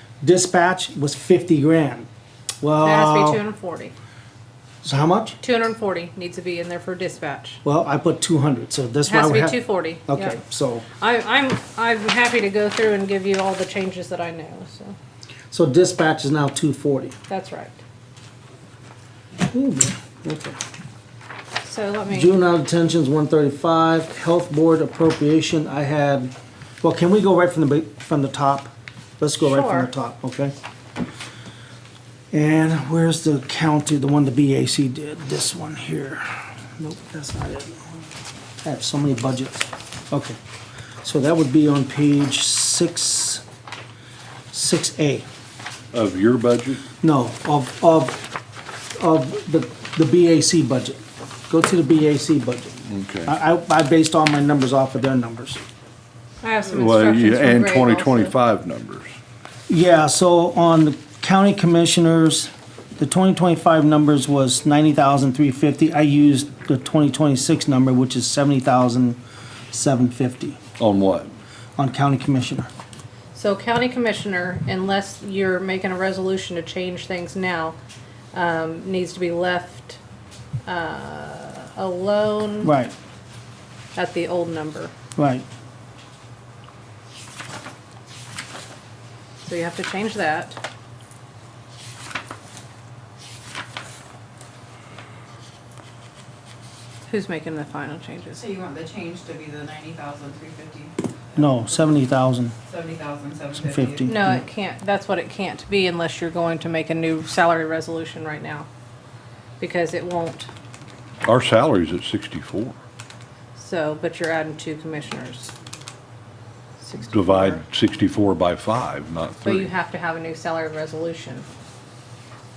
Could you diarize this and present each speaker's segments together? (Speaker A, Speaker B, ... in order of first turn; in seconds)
Speaker A: 0.2-2.1, 2.6-3.4, 4.8-5.4, 7.6-10.9, 15.5-17.1, 19.5-20.6, 22.1-30.5, 32.3-36.3, 36.8-38.0, 38.6-40.4, 41.0-43.4, 44.5-45.2, 47.0-48.2, 49.0-55.6, 59.7-69.2, 69.7-70.6, 71.8-72.7, 82.6-82.9, 85.2-85.5, 101.4-102.5, 103.6-104.4
Speaker B: 2.8-3.9, 5.4-7.6, 9.1-10.4, 11.0-15.0, 17.3-17.8, 21.6-22.4, 29.4-29.9, 56.4-58.3, 73.3-77.8, 78.3-80.0, 80.7-82.7, 84.0-84.9, 89.4-90.6, 97.1-98.5, 104.1-108.7, 109.6-110.5, 113.6-115.5, 116.8-117.6, 119.5-121.5
Speaker C: 45.9-46.9, 52.9-53.3, 56.7-59.1, 70.8-71.3, 111.3-112.7, 117.1-119.7
Speaker D: 98.4-101.0, 102.7-104.1